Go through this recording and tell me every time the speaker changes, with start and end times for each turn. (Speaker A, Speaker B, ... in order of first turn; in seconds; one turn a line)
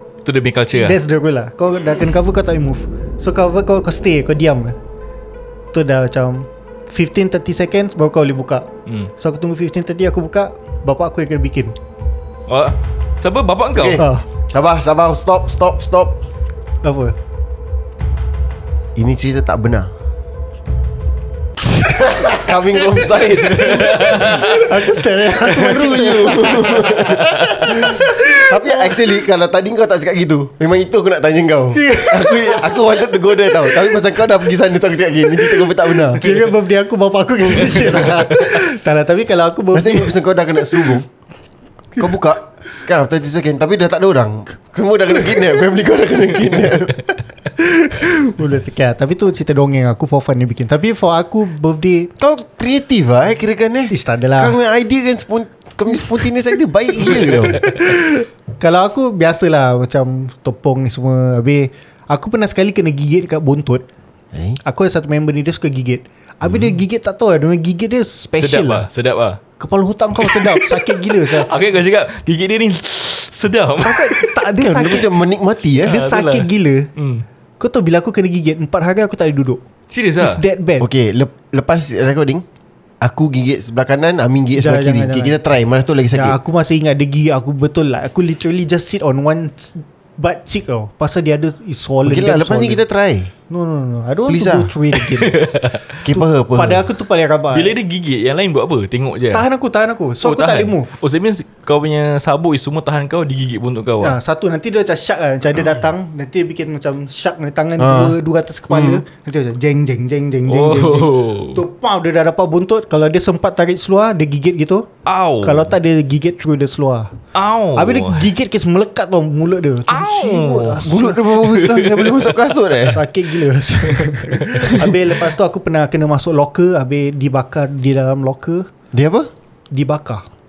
Speaker A: 0.2-1.0
Speaker B: 0.8-4.8
Speaker B: 5.7-11.8
Speaker A: 8.8-9.1
Speaker A: 12.5-14.1
Speaker C: 13.7-16.2
Speaker B: 13.9-14.2
Speaker B: 16.8-17.1
Speaker C: 18.9-19.9
Speaker C: 22.0-36.3
Speaker B: 22.0-22.4
Speaker A: 23.5-24.6
Speaker B: 23.6-29.0
Speaker A: 27.1-27.7
Speaker B: 31.7-34.1
Speaker B: 35.4-41.0
Speaker A: 37.7-38.5
Speaker C: 39.7-41.1
Speaker C: 42.0-47.0
Speaker B: 47.5-52.1
Speaker C: 52.2-57.6
Speaker B: 53.9-54.6
Speaker B: 57.6-63.9
Speaker C: 64.3-64.6
Speaker B: 64.6-68.9
Speaker A: 68.4-69.4
Speaker B: 69.6-71.5
Speaker A: 70.2-74.4
Speaker B: 73.8-75.1
Speaker C: 74.6-76.0
Speaker B: 75.8-76.9
Speaker A: 75.8-77.2
Speaker B: 77.6-79.6
Speaker A: 79.9-80.4
Speaker B: 80.2-80.9
Speaker C: 80.8-82.4
Speaker C: 83.0-86.4
Speaker B: 84.6-85.4
Speaker B: 86.1-92.8
Speaker C: 92.0-93.3
Speaker B: 93.5-95.5
Speaker C: 94.3-94.7
Speaker A: 94.9-96.0
Speaker C: 96.0-96.8
Speaker B: 96.1-97.8
Speaker A: 97.5-99.5
Speaker B: 99.3-100.9
Speaker A: 100.2-104.2
Speaker B: 104.0-114.9
Speaker C: 107.8-108.1
Speaker C: 108.7-109.0
Speaker A: 110.5-111.6
Speaker A: 115.0-115.7
Speaker B: 115.4-117.1
Speaker A: 117.3-118.3
Speaker B: 117.8-121.2
Speaker A: 119.9-122.4
Speaker C: 120.8-123.0
Speaker B: 122.9-128.7
Speaker A: 124.0-124.4
Speaker C: 128.9-129.3
Speaker B: 129.7-130.2